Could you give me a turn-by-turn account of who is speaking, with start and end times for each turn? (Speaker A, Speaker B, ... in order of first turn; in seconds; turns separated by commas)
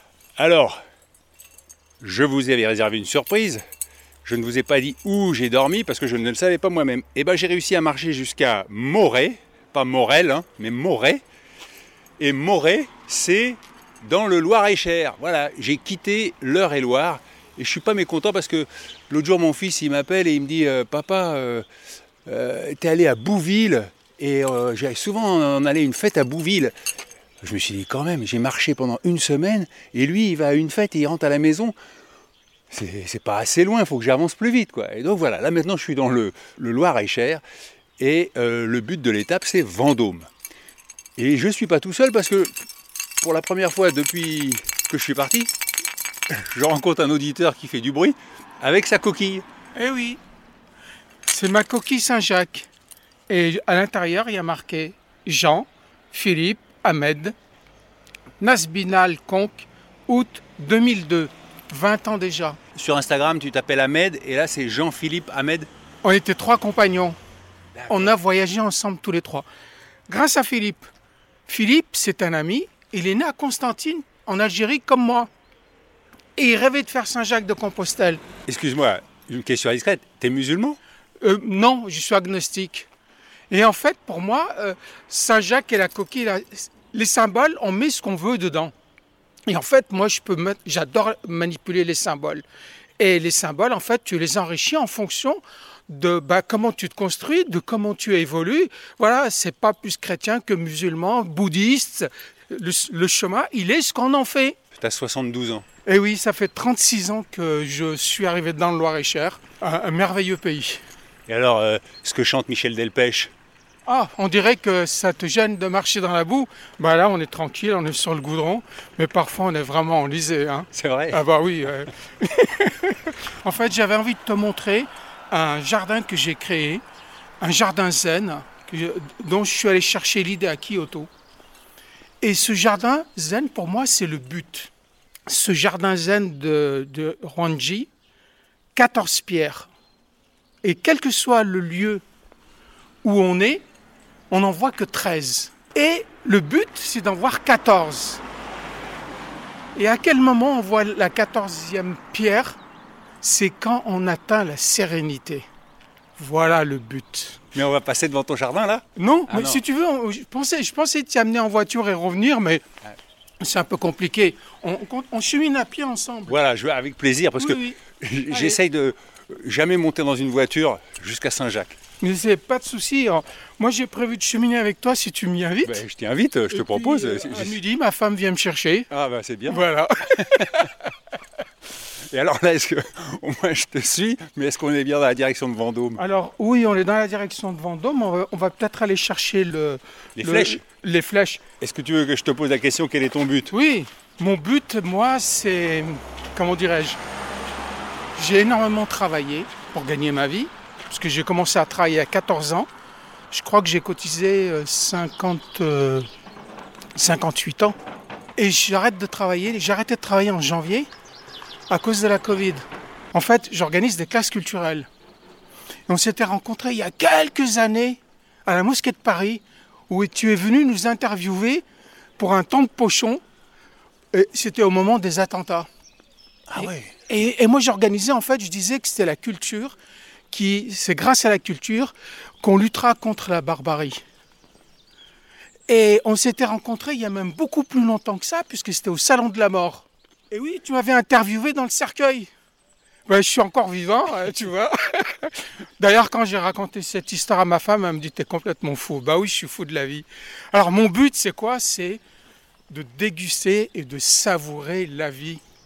Speaker A: 0.4-0.8, Speaker A: 2.0-3.6, Speaker A: 4.2-11.2, Speaker A: 12.2-21.7, Speaker A: 22.3-26.7, Speaker A: 27.4-31.8, Speaker A: 32.7-37.4, Speaker A: 38.0-40.3, Speaker A: 41.2-42.5, Speaker A: 43.2-45.5, Speaker A: 46.3-49.5, Speaker B: 49.8-50.2, Speaker B: 51.3-52.7, Speaker B: 53.3-57.4, Speaker B: 58.4-62.6, Speaker A: 62.8-65.7, Speaker B: 66.0-67.2, Speaker A: 67.8-68.2, Speaker B: 67.9-69.5, Speaker B: 70.1-70.9, Speaker B: 71.5-75.3, Speaker B: 76.4-78.2, Speaker A: 78.5-80.8, Speaker B: 81.2-82.9, Speaker B: 83.5-88.7, Speaker B: 89.5-92.4, Speaker B: 93.0-104.6, Speaker A: 104.8-105.7, Speaker B: 105.9-110.8, Speaker A: 111.3-113.3, Speaker B: 113.9-126.8, Speaker A: 120.7-121.2, Speaker B: 127.4-131.1, Speaker B: 132.2-134.7, Speaker B: 135.3-137.9, Speaker B: 138.8-139.7, Speaker B: 140.6-142.0, Speaker B: 143.0-143.7, Speaker B: 144.3-148.2, Speaker B: 149.8-152.6, Speaker B: 153.2-155.5, Speaker B: 156.2-157.4, Speaker A: 157.5-159.6, Speaker B: 159.0-162.6, Speaker B: 163.4-166.3, Speaker A: 166.3-171.8, Speaker B: 167.4-167.8, Speaker B: 168.3-168.6, Speaker B: 172.0-175.8, Speaker A: 175.6-177.6, Speaker B: 176.5-178.9, Speaker A: 178.9-179.6, Speaker B: 179.5-180.7, Speaker A: 182.1-186.0, Speaker B: 186.0-191.4, Speaker A: 190.2-190.6, Speaker A: 191.6-193.5, Speaker B: 193.5-197.0, Speaker B: 198.2-202.7, Speaker B: 203.3-206.1, Speaker B: 207.0-207.8, Speaker B: 208.4-210.9, Speaker B: 211.7-214.9, Speaker B: 215.9-221.6, Speaker B: 222.2-223.2, Speaker B: 224.1-225.7, Speaker A: 226.5-226.9, Speaker B: 226.6-229.8, Speaker B: 230.3-234.0, Speaker B: 235.7-242.3, Speaker B: 243.1-252.0, Speaker B: 252.7-255.4